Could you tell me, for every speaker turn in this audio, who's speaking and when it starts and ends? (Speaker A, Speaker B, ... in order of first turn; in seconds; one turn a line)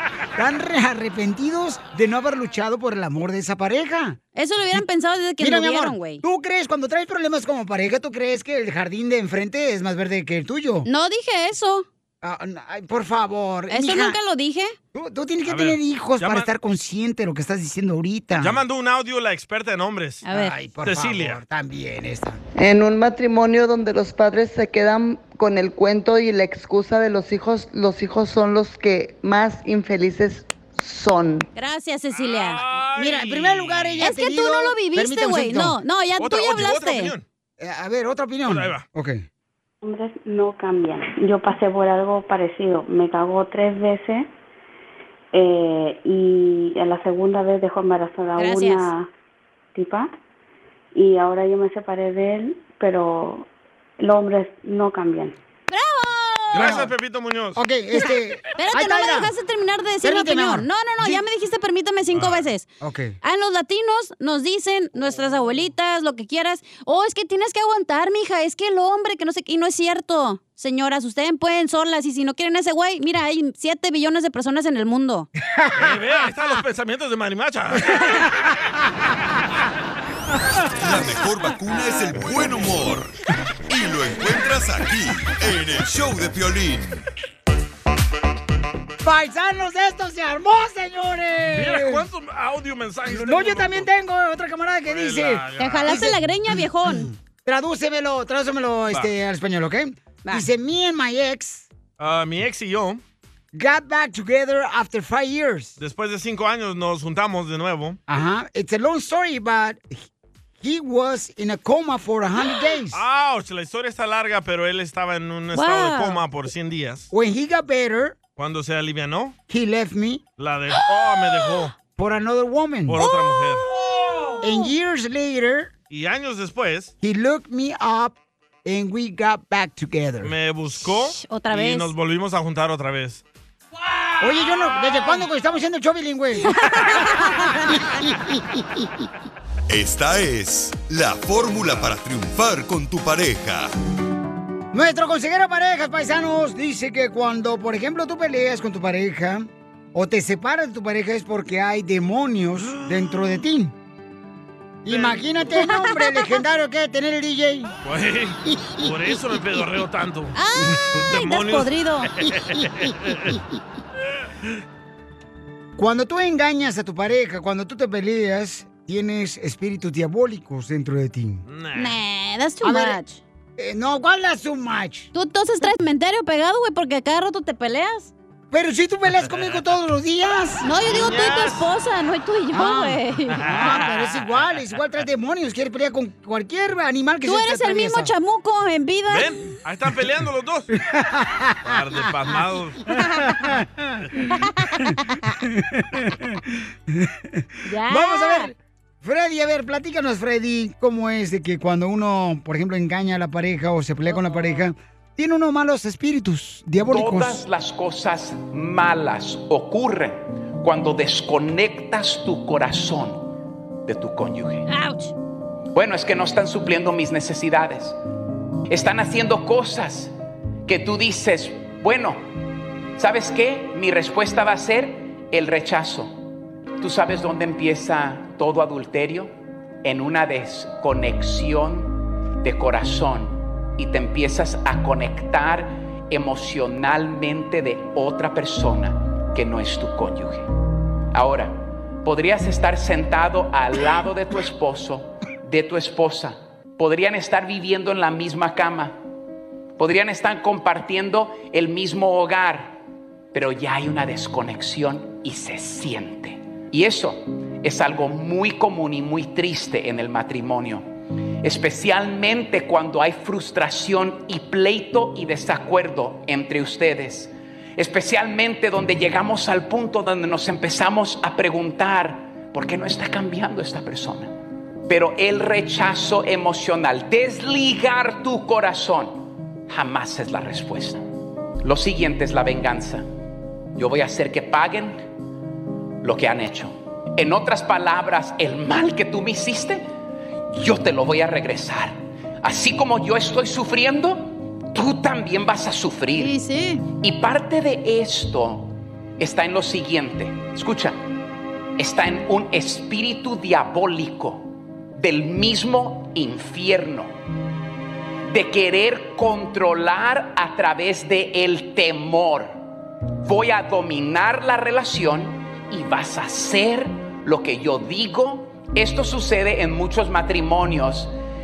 Speaker A: 0.4-4.2
Speaker B: 4.3-6.2
Speaker A: 5.4-10.9
Speaker B: 10.8-11.9
Speaker A: 12.2-14.2
Speaker B: 13.7-14.8
Speaker A: 14.9-18.6
Speaker C: 15.5-16.5
Speaker C: 18.4-20.2
Speaker B: 20.2-20.6
Speaker A: 20.3-22.4
Speaker C: 20.8-21.4
Speaker D: 22.6-31.5
Speaker B: 31.6-32.6
Speaker C: 32.1-34.1
Speaker A: 33.0-35.8
Speaker B: 34.0-37.1
Speaker C: 36.2-37.2
Speaker A: 37.6-39.2
Speaker C: 38.5-38.8
Speaker E: 39.8-44.3
Speaker E: 45.3-49.1
Speaker B: 48.4-48.9
Speaker E: 49.7-50.1
Speaker E: 50.9-53.5
Speaker E: 54.0-55.4
Speaker B: 55.7-56.8
Speaker C: 56.5-57.6
Speaker A: 56.6-56.9
Speaker A: 57.6-59.3
Speaker B: 58.6-62.7
Speaker A: 60.0-61.2
Speaker C: 62.1-62.5
Speaker A: 62.8-63.2
Speaker B: 63.2-75.3
Speaker A: 75.5-75.9
Speaker C: 75.8-78.2
Speaker F: 80.8-83.1
Speaker F: 83.7-87.0
Speaker A: 89.0-92.1
Speaker C: 91.5-93.9
Speaker A: 93.1-101.7
Speaker C: 94.9-96.1
Speaker B: 95.6-97.1
Speaker C: 102.0-103.0
Speaker A: 103.5-105.8
Speaker C: 105.8-108.0
Speaker A: 108.1-110.0
Speaker A: 110.6-113.0
Speaker C: 112.9-117.1
Speaker B: 115.5-116.2
Speaker A: 117.1-118.2
Speaker C: 118.4-119.4
Speaker A: 119.5-120.2
Speaker C: 120.4-121.7
Speaker A: 122.0-123.0
Speaker C: 122.9-123.7
Speaker B: 123.0-123.4
Speaker A: 124.4-125.7
Speaker B: 124.5-124.7
Speaker C: 125.9-126.9
Speaker A: 127.0-130.3
Speaker C: 130.2-133.2
Speaker B: 131.1-131.9
Speaker A: 134.2-136.5
Speaker B: 136.4-137.7
Speaker F: 139.7-143.7
Speaker A: 144.7-153.7
Speaker C: 152.8-153.4
Speaker A: 154.8-157.7
Speaker C: 154.9-155.2
Speaker B: 155.6-156.4
Speaker C: 157.8-160.4
Speaker B: 160.3-162.1
Speaker C: 161.0-163.4
Speaker A: 165.8-171.4
Speaker C: 171.5-172.0
Speaker B: 171.8-173.2
Speaker A: 172.6-173.0
Speaker A: 173.6-175.1
Speaker B: 175.1-178.1
Speaker A: 178.5-180.7
Speaker C: 179.3-179.6
Speaker B: 180.6-183.4
Speaker C: 180.8-181.7
Speaker A: 182.5-188.1
Speaker C: 183.4-183.8
Speaker B: 187.2-189.3
Speaker C: 189.1-190.7
Speaker A: 190.7-192.0
Speaker C: 191.7-193.0
Speaker B: 193.0-193.3
Speaker A: 193.4-194.0
Speaker B: 194.5-195.3
Speaker A: 195.4-207.4
Speaker B: 197.7-198.5
Speaker G: 206.9-214.7
Speaker B: 214.7-215.1
Speaker G: 215.7-218.0
Speaker G: 218.7-220.1
Speaker G: 220.7-222.2
Speaker G: 223.0-226.2
Speaker G: 226.8-229.3
Speaker G: 229.8-240.5
Speaker G: 241.1-249.0
Speaker G: 249.8-252.8
Speaker G: 253.3-260.9
Speaker G: 261.4-274.3
Speaker G: 274.9-281.1
Speaker G: 281.6-283.1
Speaker G: 283.8-285.0
Speaker G: 286.0-289.9
Speaker G: 290.5-296.3
Speaker B: 296.1-296.9
Speaker G: 297.0-301.0
Speaker G: 301.8-307.1
Speaker G: 308.3-312.6
Speaker G: 313.2-321.1